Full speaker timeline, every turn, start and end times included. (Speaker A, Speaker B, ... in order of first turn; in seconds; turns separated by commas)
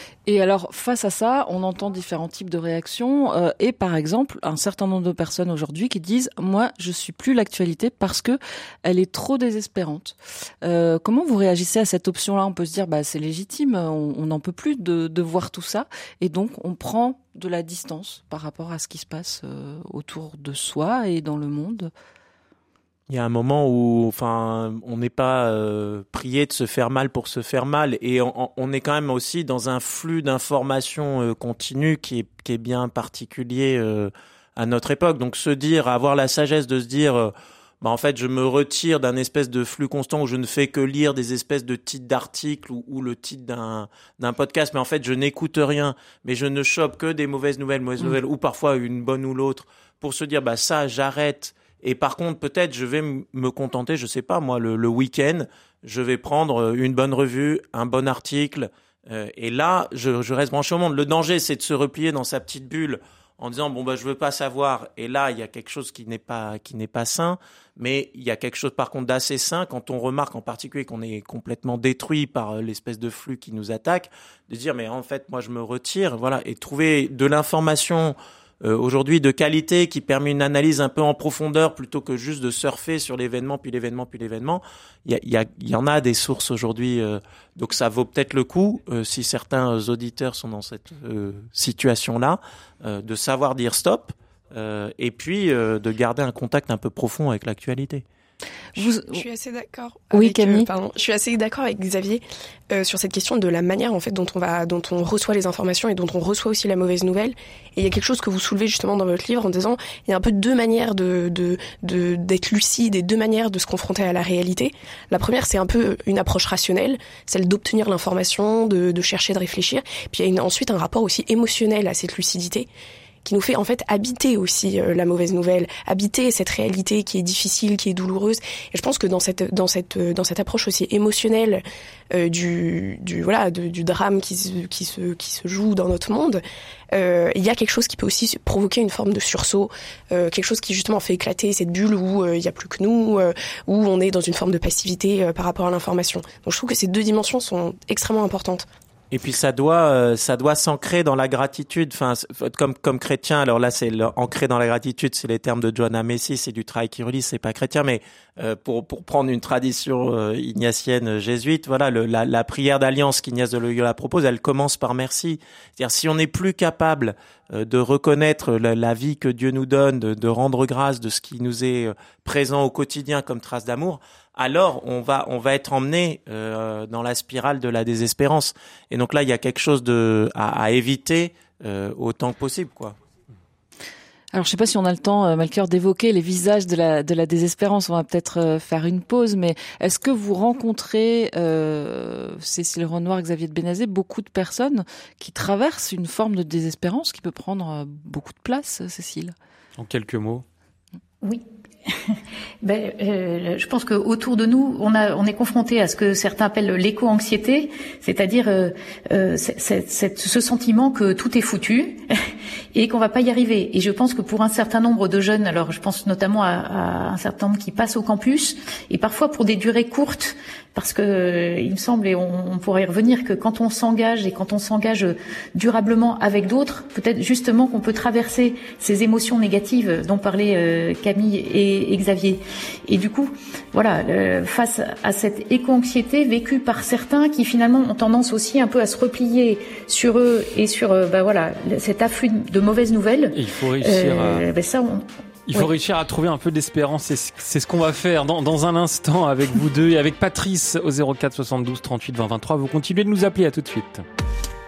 Speaker A: 0.3-21.9, Speaker B: 23.1-98.0, Speaker A: 98.8-99.2, Speaker C: 98.8-122.7, Speaker A: 100.1-100.7, Speaker C: 123.2-148.7, Speaker B: 149.1-182.9, Speaker A: 184.3-199.3, Speaker D: 199.8-200.4, Speaker E: 201.2-212.1, Speaker E: 212.7-245.7, Speaker D: 243.3-244.4, Speaker D: 245.5-254.0